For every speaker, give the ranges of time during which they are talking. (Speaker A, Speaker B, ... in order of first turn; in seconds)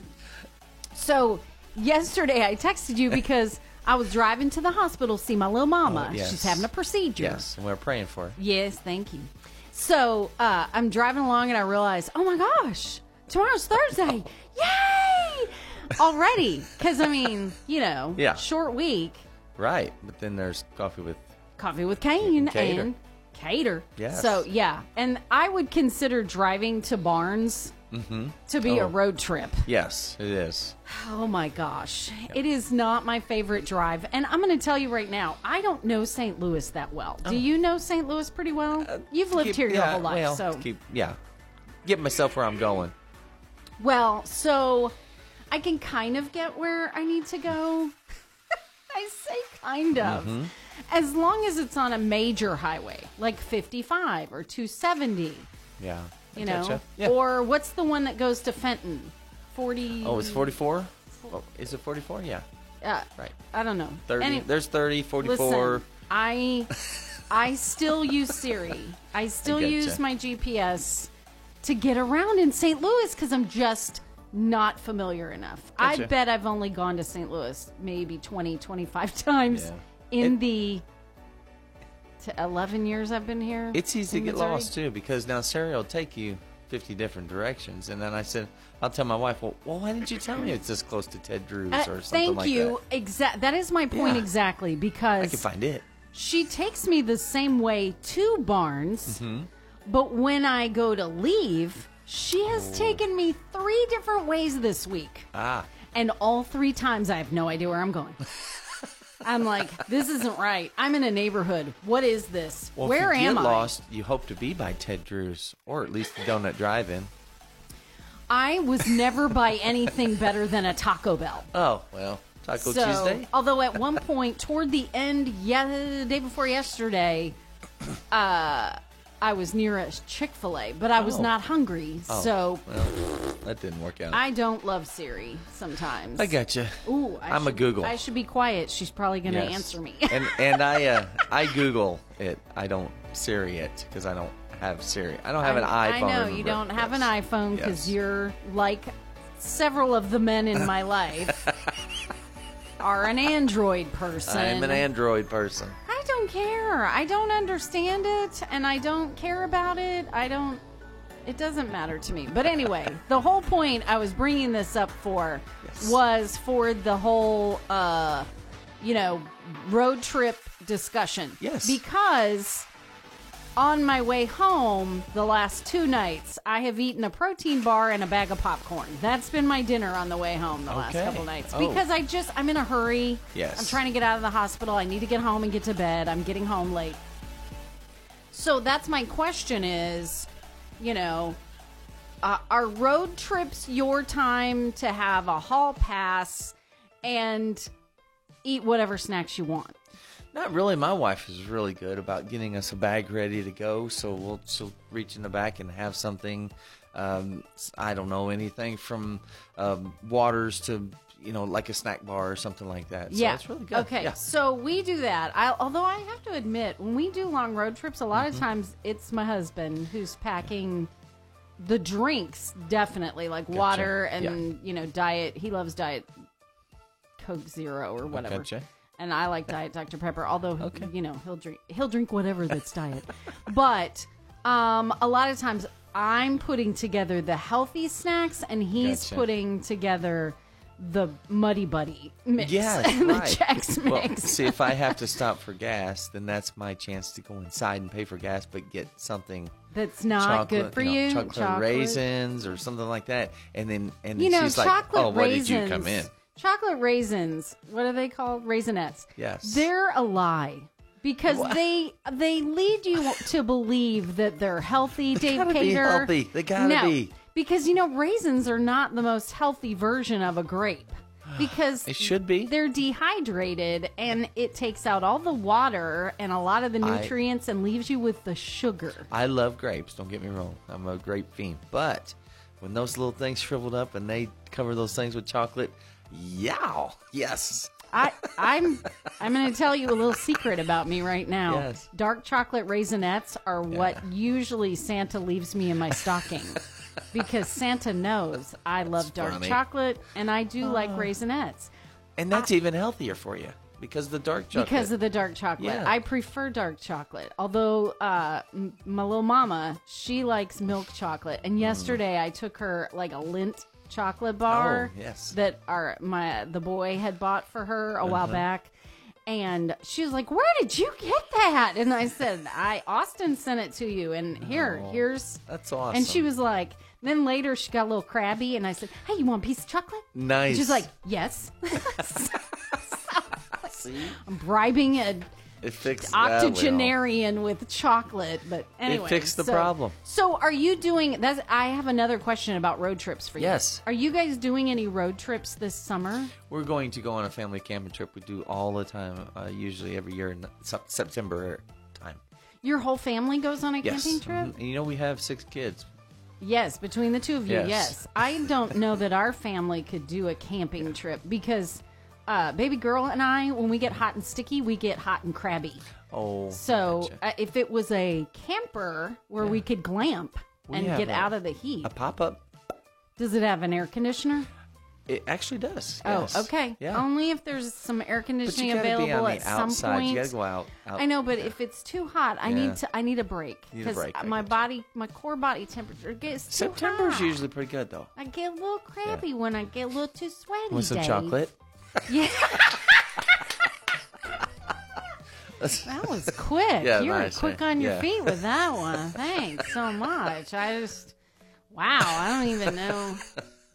Speaker A: 0.9-7.5, 8.3-19.2, 21.6-27.7, 28.5-29.7, 30.9-40.7, 43.8-45.0, 45.5-48.0, 48.9-55.5, 56.3-60.5, 62.8-64.5, 65.2-66.8, 67.3-71.1, 71.6-80.8, 82.2-84.7, 91.7-95.4, 96.1-99.2, 99.8-105.3, 105.9-108.2, 109.2-113.8, 118.3-121.5, 122.6-127.4, 128.1-132.9, 134.1-141.0, 145.4-151.5, 152.8-154.9, 155.8-160.6, 161.2-168.3, 168.8-172.7, 173.6-187.0, 188.3-190.3, 190.8-191.4, 192.2-197.7, 198.4-199.8, 213.1-220.9, 221.6-226.1, 227.2-245.0, 249.7-252.0, 254.2-279.1, 287.9-301.7, 304.5-318.7, 319.3-335.3, 335.9-346.3, 352.6-354.6, 356.4-365.9, 366.5-371.9, 373.2-374.5, 376.0-380.4, 380.9-387.4, 388.2-391.4, 392.1-392.9, 395.8-401.2, 401.7-403.3
Speaker B: 5.8-8.4, 18.1-18.4, 19.6-21.3, 22.2-22.9, 24.0-24.4, 27.9-28.9, 29.6-30.8, 38.8-41.2, 41.8-42.9, 50.0-50.5, 55.8-57.2, 60.0-62.5, 64.1-65.8, 69.4-70.0, 75.8-76.1, 79.5-80.4, 83.7-92.8, 93.9-94.3, 95.2-95.8, 99.1-99.5, 102.5-103.0, 105.3-105.7, 112.8-117.1, 121.5-123.3, 131.0-131.3, 132.1-134.2, 136.2-138.0, 139.2-147.9, 151.3-151.7, 154.2-155.8, 165.6-166.0, 171.4-171.8, 180.7-181.9, 183.3-183.8, 200.3-214.2, 218.2-218.4, 223.5-224.4, 228.1-228.6, 230.6-230.9, 238.8-239.3, 242.4-249.5, 250.1-256.1, 259.2-259.7, 261.2-261.6, 265.1-267.1, 271.3-272.6, 276.8-277.1, 279.1-288.0, 291.5-291.9, 293.7-294.0, 298.9-299.6, 300.6-301.2, 302.2-304.9, 305.6-305.9, 311.6-312.0, 314.5-315.4, 318.0-318.4, 324.4-326.3, 330.1-330.9, 333.7-334.2, 335.6-336.9, 338.9-339.9, 343.4-343.8, 346.4-352.2, 353.8-355.9, 357.5-358.5, 366.1-367.2, 370.7-372.4, 375.1-377.1, 378.4-381.6, 382.4-382.8, 383.7-384.6, 386.5-388.1, 390.7-391.5, 392.5-392.9, 395.6-399.8, 402.2-403.0